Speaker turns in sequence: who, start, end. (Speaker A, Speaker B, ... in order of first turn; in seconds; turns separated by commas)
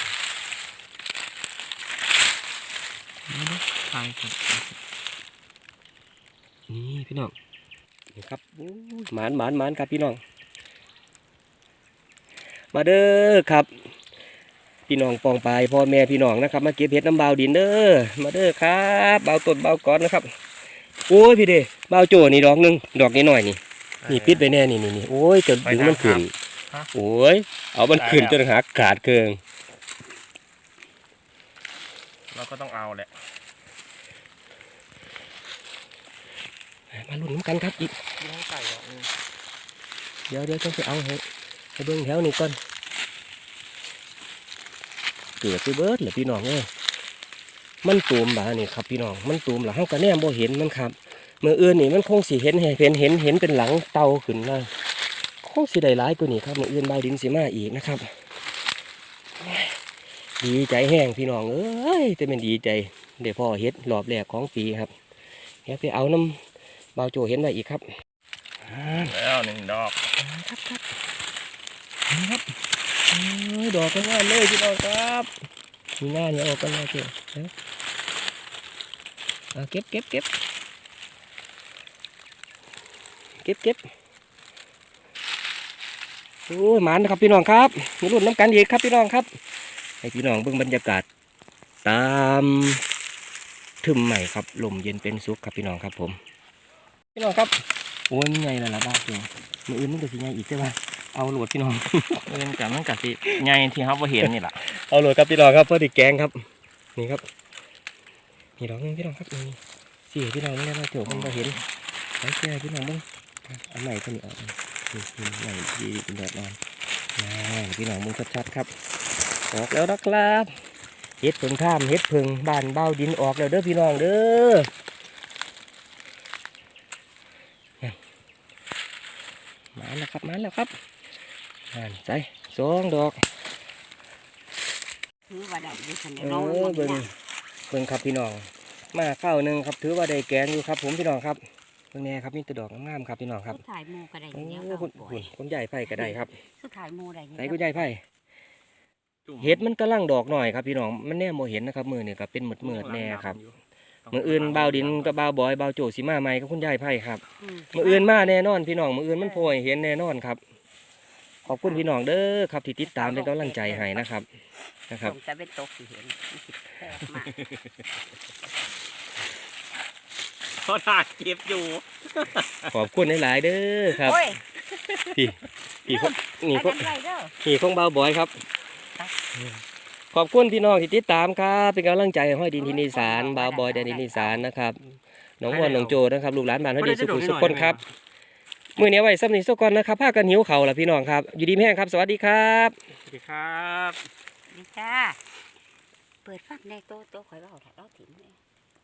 Speaker A: 3.3-3.6, Speaker B: 3.9-4.8, Speaker A: 6.7-7.3, Speaker A: 8.1-10.2, Speaker A: 12.7-13.7, Speaker A: 14.9-20.3, Speaker A: 21.1-26.3, Speaker B: 24.0-24.5, Speaker B: 25.6-26.9, Speaker A: 26.9-29.4, Speaker B: 27.9-28.4, Speaker B: 32.3-33.1, Speaker A: 36.9-38.0, Speaker B: 38.2-39.1, Speaker A: 40.3-41.2, Speaker A: 41.8-42.6, Speaker A: 45.4-46.7, Speaker A: 47.8-54.7, Speaker A: 55.4-58.1, Speaker A: 59.4-59.8, Speaker A: 60.4-64.9, Speaker A: 65.7-66.4, Speaker A: 67.0-67.9, Speaker A: 68.6-69.1, Speaker B: 68.9-70.0, Speaker A: 70.2-70.9, Speaker A: 72.1-72.5, Speaker A: 73.1-75.3, Speaker A: 76.0-77.5, Speaker A: 79.5-80.3, Speaker A: 83.4-83.8, Speaker A: 86.5-89.3, Speaker A: 90.0-91.1, Speaker A: 91.8-92.8, Speaker A: 93.8-96.2, Speaker A: 97.2-102.3, Speaker B: 102.3-104.7, Speaker A: 104.2-106.4, Speaker A: 107.0-107.2, Speaker A: 108.6-111.6, Speaker B: 111.0-111.6, Speaker A: 112.2-116.6, Speaker A: 117.2-118.7, Speaker A: 119.5-120.5, Speaker A: 121.2-124.7, Speaker A: 129.8-130.7, Speaker A: 131.7-133.2, Speaker C: 135.3-137.1, Speaker A: 136.2-137.1, Speaker A: 137.7-141.4, Speaker A: 141.9-143.6, Speaker C: 143.5-145.3, Speaker A: 144.3-146.3, Speaker C: 145.9-147.9, Speaker A: 147.3-148.0, Speaker B: 149.3-149.6, Speaker A: 149.4-153.4, Speaker B: 152.6-155.2, Speaker A: 154.1-160.4, Speaker C: 157.4-158.3, Speaker C: 159.2-159.5, Speaker C: 161.5-161.8, Speaker A: 161.5-164.3, Speaker C: 162.8-164.0, Speaker A: 164.9-165.2, Speaker C: 165.0-167.4, Speaker B: 170.6-172.8, Speaker A: 172.7-174.3, Speaker C: 174.0-174.4, Speaker A: 175.1-178.3, Speaker C: 175.9-177.3, Speaker A: 180.1-184.8, Speaker C: 182.6-184.4, Speaker A: 185.4-187.8, Speaker B: 185.5-186.0, Speaker B: 186.8-187.8, Speaker A: 188.8-192.8, Speaker B: 193.1-194.0, Speaker C: 194.5-195.2, Speaker C: 196.2-198.4